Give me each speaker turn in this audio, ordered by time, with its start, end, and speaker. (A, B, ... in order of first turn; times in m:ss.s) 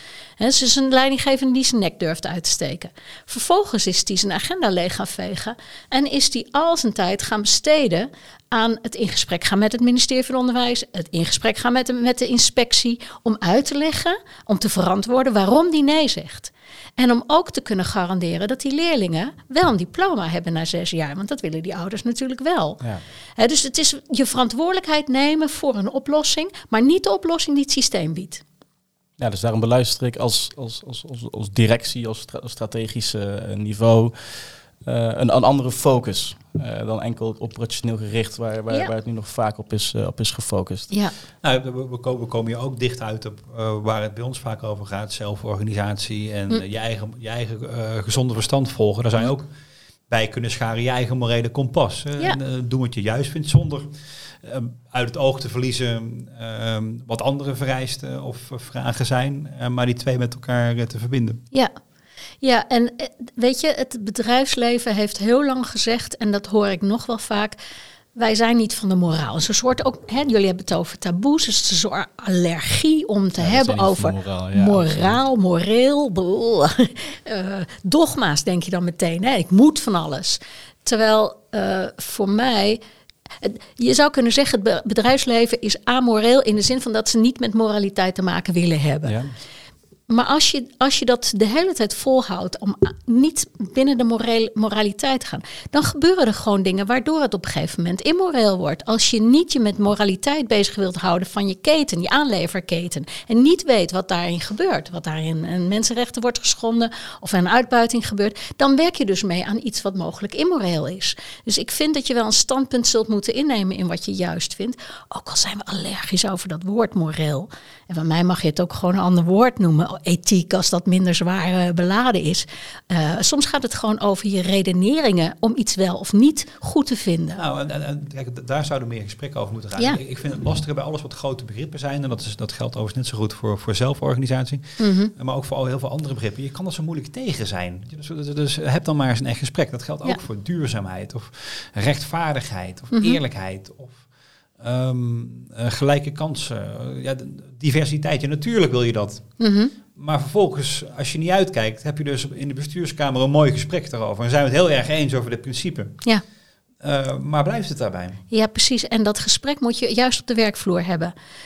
0:00.4-0:22.8 A
0:23.4-0:28.4 A
0:29.2-0:40.9 B
0:41.4-0:49.5 C
0:50.1-1:01.4 C
1:02.4-1:07.6 A
1:08.1-1:22.8 A
1:13.4-1:15.2 B
1:23.4-1:29.2 A
1:29.0-1:29.3 B
1:30.1-2:07.4 A
2:07.4-2:24.0 C
2:14.8-2:15.1 A
2:22.9-2:23.2 A
2:24.6-2:29.4 C
2:29.4-2:29.7 A
2:29.9-2:36.0 C
2:36.8-2:38.2 C
2:38.3-2:41.1 A